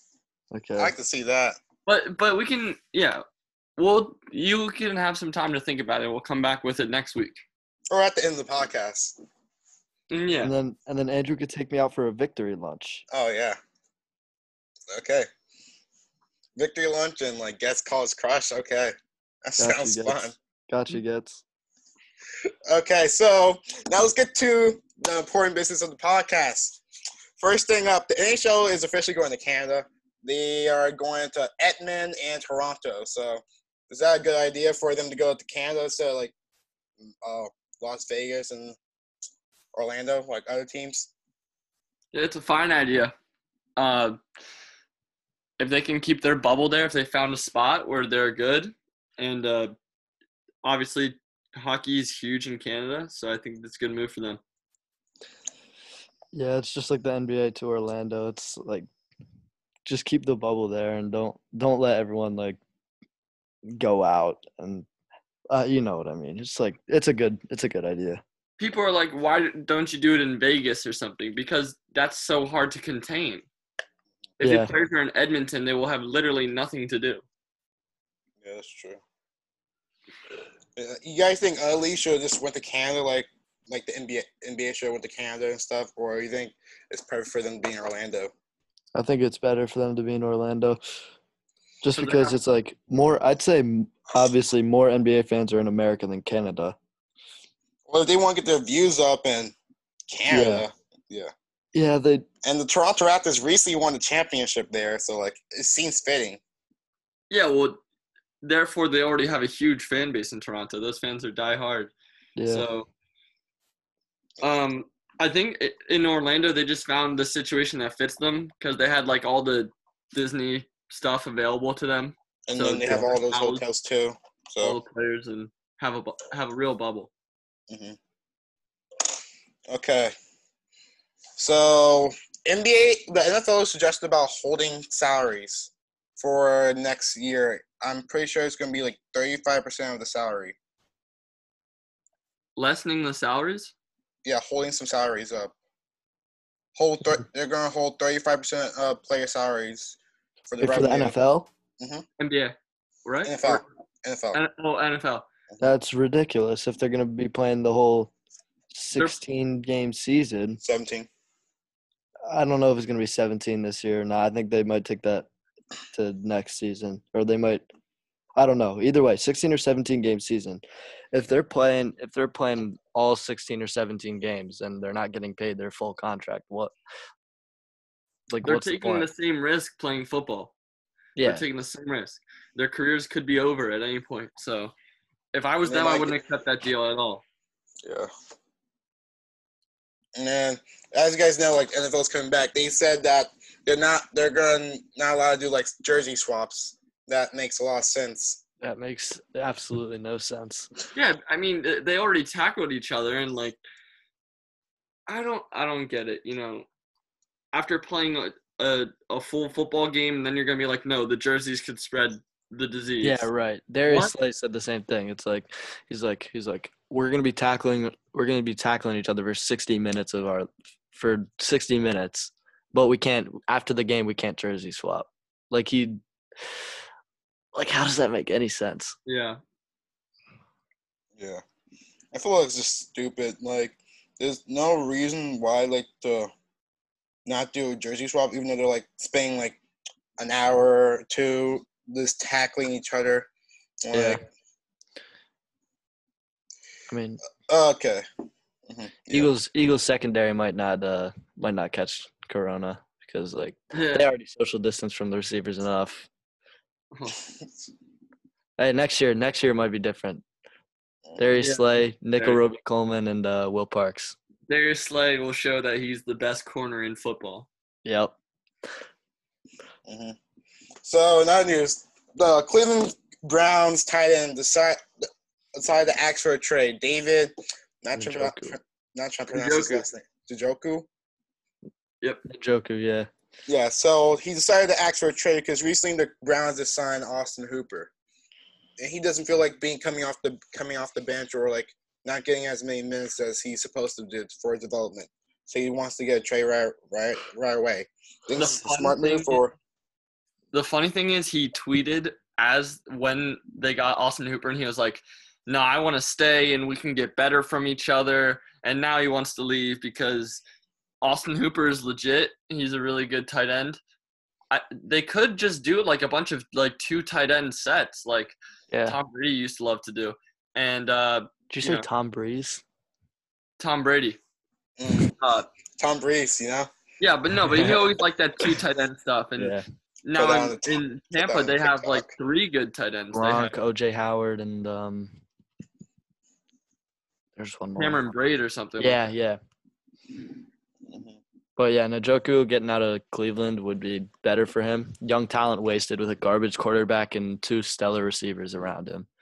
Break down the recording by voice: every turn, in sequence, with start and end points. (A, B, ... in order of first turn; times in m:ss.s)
0:00.5-0:00.9 A
0:00.8-0:01.6 B
0:01.8-0:03.2 C
0:03.8-0:07.4 C
0:07.9-0:09.2 B
0:10.1-0:10.5 C
0:10.4-0:13.0 A
0:13.1-0:13.6 B
0:14.9-0:15.3 B
0:16.6-0:20.3 B
0:19.6-0:21.4 A
0:22.7-0:26.8 B
0:27.4-0:36.3 B
0:37.2-0:38.8 B
0:39.7-0:41.1 B
0:42.1-0:43.1 C
0:43.8-0:44.2 C
0:45.6-0:49.7 C
0:50.6-0:54.4 C
0:56.3-0:58.9 A
0:59.8-1:02.6 A
1:03.6-1:04.9 A
1:05.5-1:08.2 A
1:08.6-1:13.4 C
1:14.4-1:17.2 C
1:14.4-1:14.7 A
1:18.4-1:19.0 B
1:20.8-1:28.3 B
1:28.9-1:30.8 A
1:31.8-1:36.8 A
1:32.0-1:32.3 C
1:37.9-1:39.5 B
1:40.1-1:41.3 B
1:40.3-1:40.6 A
1:41.7-1:42.2 A
1:42.4-1:46.4 B
1:47.3-1:47.8 C
1:48.4-1:51.9 C
1:52.4-1:52.6 A
1:52.5-1:52.9 C
1:54.4-2:03.6 C
2:02.5-2:04.8 B
2:04.6-2:07.1 C
2:07.7-2:08.0 B
2:09.7-2:10.1 B
2:11.4-2:20.5 B
2:22.6-2:23.7 C
2:24.2-2:25.5 B
2:26.8-2:30.0 B
2:30.5-2:31.2 B
2:30.6-2:31.5 A
2:31.8-2:32.0 B
2:32.2-2:33.6 C
2:33.2-2:34.4 B
2:34.3-2:35.3 C
2:35.6-2:38.1 A
2:38.7-2:40.6 A
2:40.6-2:41.1 B
2:42.3-2:45.3 A
2:45.9-2:47.6 A
2:48.4-2:56.7 A
2:58.3-2:59.1 A
2:58.4-3:00.5 C
3:01.2-3:01.4 A
3:01.2-3:04.7 C
3:05.3-3:07.2 C
3:05.6-3:06.1 B
3:07.8-3:08.1 B
3:10.2-3:18.4 B
3:18.6-3:20.7 A
3:20.9-3:23.6 C
3:25.1-3:26.7 C
3:27.5-3:33.2 C
3:33.0-3:46.0 A
3:33.9-3:34.1 C
3:47.5-3:49.0 A
3:49.0-3:49.4 C
3:51.2-3:51.4 B
3:52.1-3:56.3 B
3:57.2-3:59.6 B
4:00.2-4:03.3 B
4:03.8-4:04.2 B
4:03.9-4:04.2 A
4:06.9-4:07.2 A
4:07.5-4:08.0 B
4:08.7-4:09.3 B
4:09.1-4:16.1 A
4:13.7-4:14.0 C
4:16.9-4:17.2 C
4:18.6-4:20.2 A
4:21.2-4:24.2 A
4:21.4-4:21.6 C
4:24.5-4:27.5 C
4:27.8-4:28.1 A
4:29.8-4:30.2 B
4:30.8-4:34.8 B
4:35.5-4:40.9 B
4:38.0-4:38.6 A
4:39.3-4:39.8 C
4:42.2-4:43.1 A
4:43.5-4:47.9 B
4:48.8-4:59.5 B
4:58.3-4:59.4 C
5:00.5-5:10.4 C
5:11.0-5:13.8 C
5:14.5-5:21.8 C
5:18.7-5:19.0 A
5:21.5-5:22.6 A
5:23.6-5:24.2 C
5:24.8-5:25.1 B
5:25.2-5:25.5 C
5:25.8-5:26.7 B
5:27.0-5:33.5 C
5:29.4-5:29.6 A
5:30.2-5:32.1 B
5:33.1-5:35.2 A
5:37.4-5:38.0 A
5:37.8-5:39.0 C
5:38.8-5:39.4 A
5:40.9-5:41.2 B
5:41.6-5:49.1 A